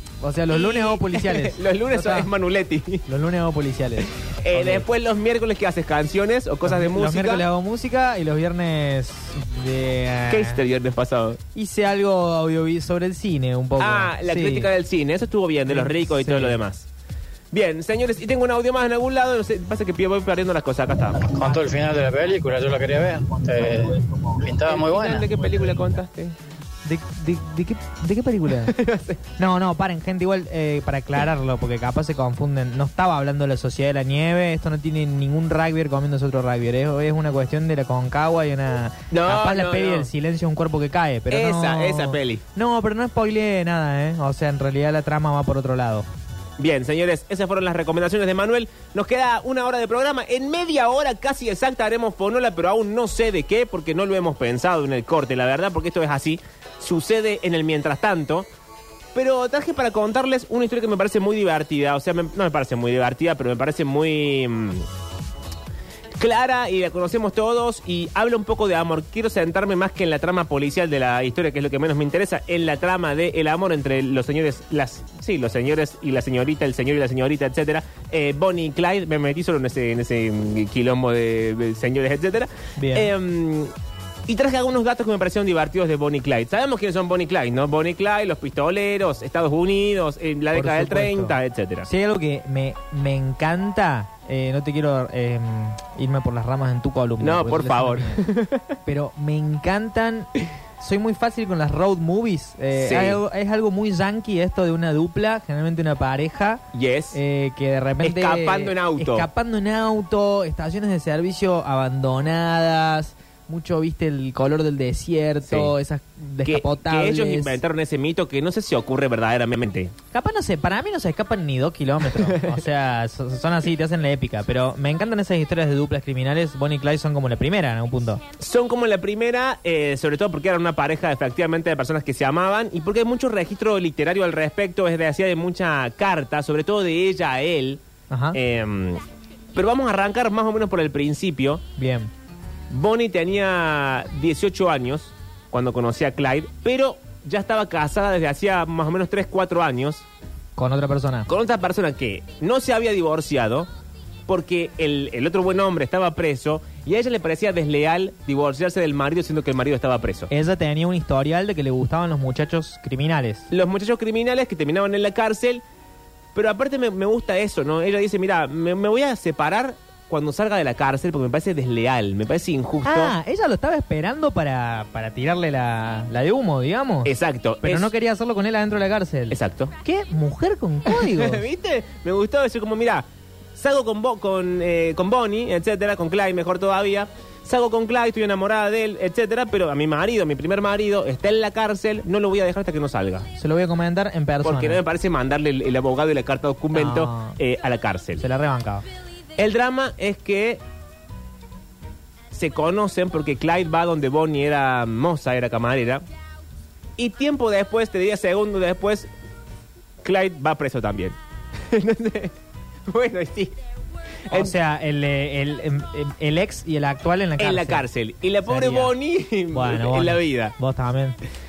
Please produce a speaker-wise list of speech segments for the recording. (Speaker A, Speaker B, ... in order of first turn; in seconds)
Speaker A: 0.2-2.3, 3.1-4.9, 6.7-10.6, 11.5-14.7, 15.7-16.6, 26.8-28.7, 29.4-46.1, 82.8-83.1, 90.5-98.2, 98.8-117.6, 120.1-128.2, 138.1-138.4, 141.8-142.1, 150.6-151.3, 160.3-163.5, 172.8-181.4, 193.4-194.8, 196.7-197.4, 198.2-198.9, 214.3-217.8, 218.5-218.9, 219.5-221.2
Speaker B: 0.5-3.1, 4.2-7.5, 10.3-11.4, 13.8-16.9, 17.5-21.2, 24.7-26.4, 28.6-29.2, 39.1-40.1, 41.3-42.4, 46.6-58.5, 59.1-64.9, 66.2-83.7, 84.3-91.9, 97.2-98.8, 102.8-103.2, 106.7-107.2, 108.0-109.3, 115.5-115.7, 116.5-119.9, 128.4-137.8, 138.3-139.0, 139.6-141.6, 142.7-150.1, 151.3-153.7, 154.3-160.3, 163.5-165.6, 166.3-173.1, 177.0-177.9, 179.3-179.7, 180.9-193.3, 194.4-198.2, 199.4-200.6, 202.3-206.1, 207.0-209.1, 210.0-212.3, 212.9-213.6, 214.3-214.6, 217.4-220.6
Speaker C: 21.1-25.9